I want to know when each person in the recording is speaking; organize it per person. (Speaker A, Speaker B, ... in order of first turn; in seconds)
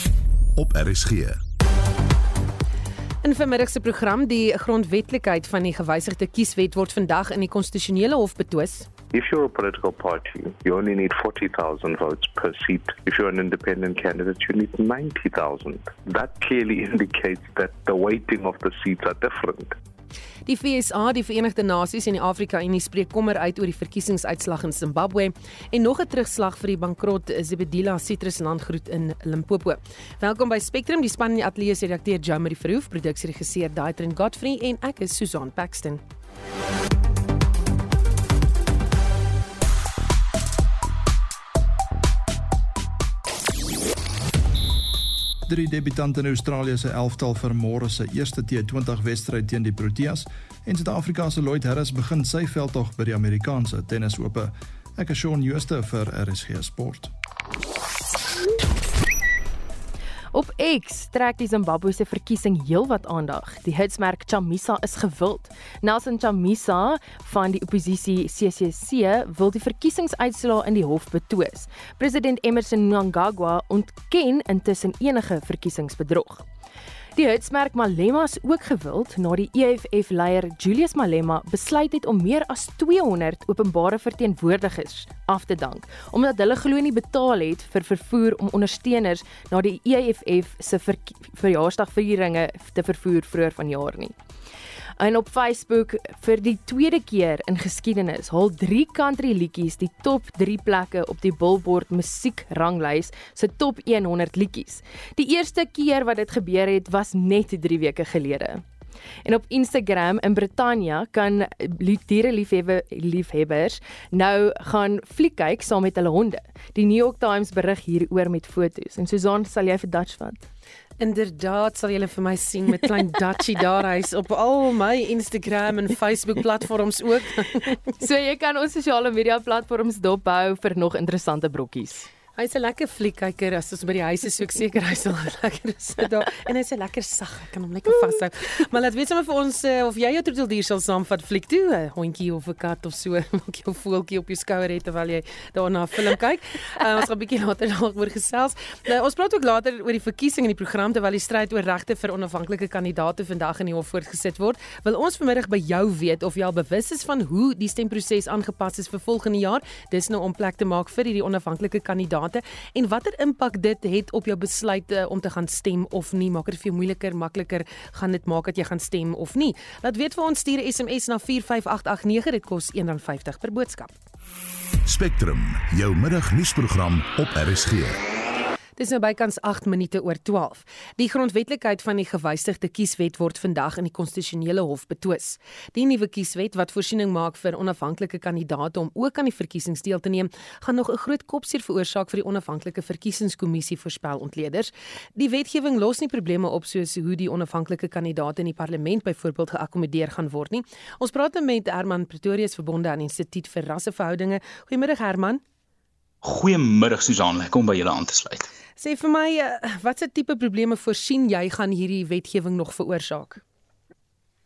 Speaker A: 0.6-1.4, 174.9-178.0
Speaker B: 3.2-8.9, 20.5-36.0, 121.0-127.7, 132.4-173.9, 178.8-205.4, 208.8-213.4
Speaker C: 9.1-19.8
Speaker D: 45.5-57.1
Speaker E: 60.3-76.5, 77.2-94.2, 95.0-108.6, 109.2-120.5, 128.0-132.1
Speaker F: 206.2-208.5